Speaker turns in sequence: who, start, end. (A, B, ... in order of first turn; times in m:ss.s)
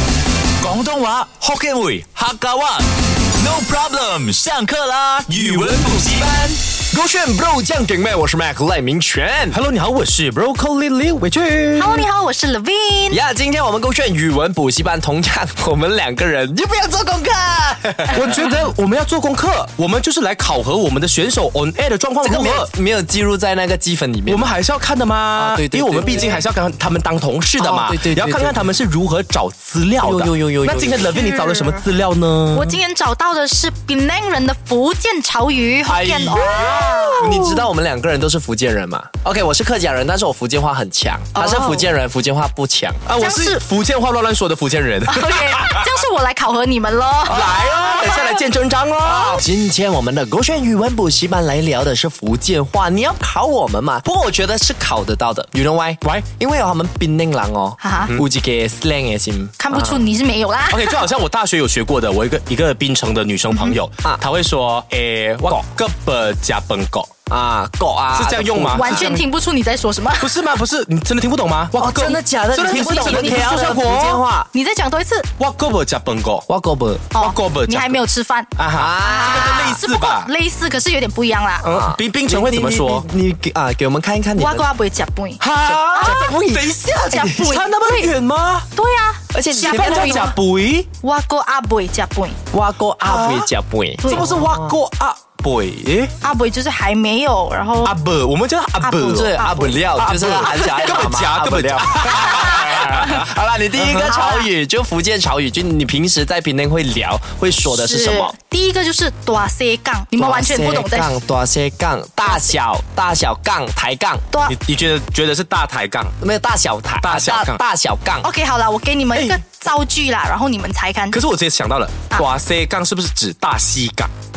0:00.6-0:06.6 A
0:06.9-0:09.6 B
0:09.5-0:12.1 C
0:11.7-0:13.2 D
0:13.1-0:18.4 B
0:18.1-0:22.7 C
0:22.2-0:24.5 B
0:24.3-0:32.8 C
0:25.4-0:26.4 B
0:27.6-0:28.7 B
0:30.0-0:31.2 B
0:31.1-0:31.8 D
0:32.5-0:37.4 D
0:35.9-0:37.6 C
0:36.3-0:43.0 B
0:41.3-0:41.8 D
0:43.0-0:45.9 C
0:43.2-0:43.6 D
0:45.1-0:48.4 D
0:47.2-0:49.4 C
0:49.0-1:00.0 B
0:57.8-0:58.1 D
0:59.6-1:01.0 D
1:00.7-1:07.1 C
1:07.3-1:09.2 B
1:08.1-1:09.2 C
1:08.8-1:10.5 D
1:10.2-1:14.2 C
1:11.7-1:14.5 B
1:12.5-1:13.7 D
1:14.5-1:15.3 D
1:15.4-1:16.4 C
1:16.5-1:17.1 B
1:17.1-1:21.6 D
1:17.2-1:18.0 C
1:18.6-1:20.3 C
1:18.7-1:19.8 B
1:21.6-1:23.0 C
1:21.6-1:24.6 B
1:24.4-1:25.4 D
1:25.4-1:28.7 C
1:25.6-1:27.5 B
1:25.9-1:26.3 D
1:27.1-1:28.1 D
1:28.7-1:30.3 D
1:29.3-1:30.4 B
1:29.6-1:30.9 C
1:31.0-1:32.4 D
1:32.5-1:34.8 B
1:33.0-1:33.5 C
1:34.0-1:34.3 D
1:34.1-1:36.1 C
1:36.2-1:38.0 D
1:37.8-1:39.4 C
1:38.8-1:39.9 D
1:39.0-1:48.3 B
1:40.0-1:43.2 C
1:40.5-1:41.0 D
1:42.0-1:42.9 D
1:43.8-1:44.1 C
1:44.0-1:44.5 D
1:47.7-1:51.2 D
1:50.1-1:54.2 B
1:52.2-1:52.6 D
1:54.3-1:54.6 D
1:54.4-1:56.1 C
1:56.2-1:58.3 B
1:57.0-1:57.6 C
1:58.2-2:01.2 D
1:59.1-1:59.4 C
2:01.1-2:04.1 C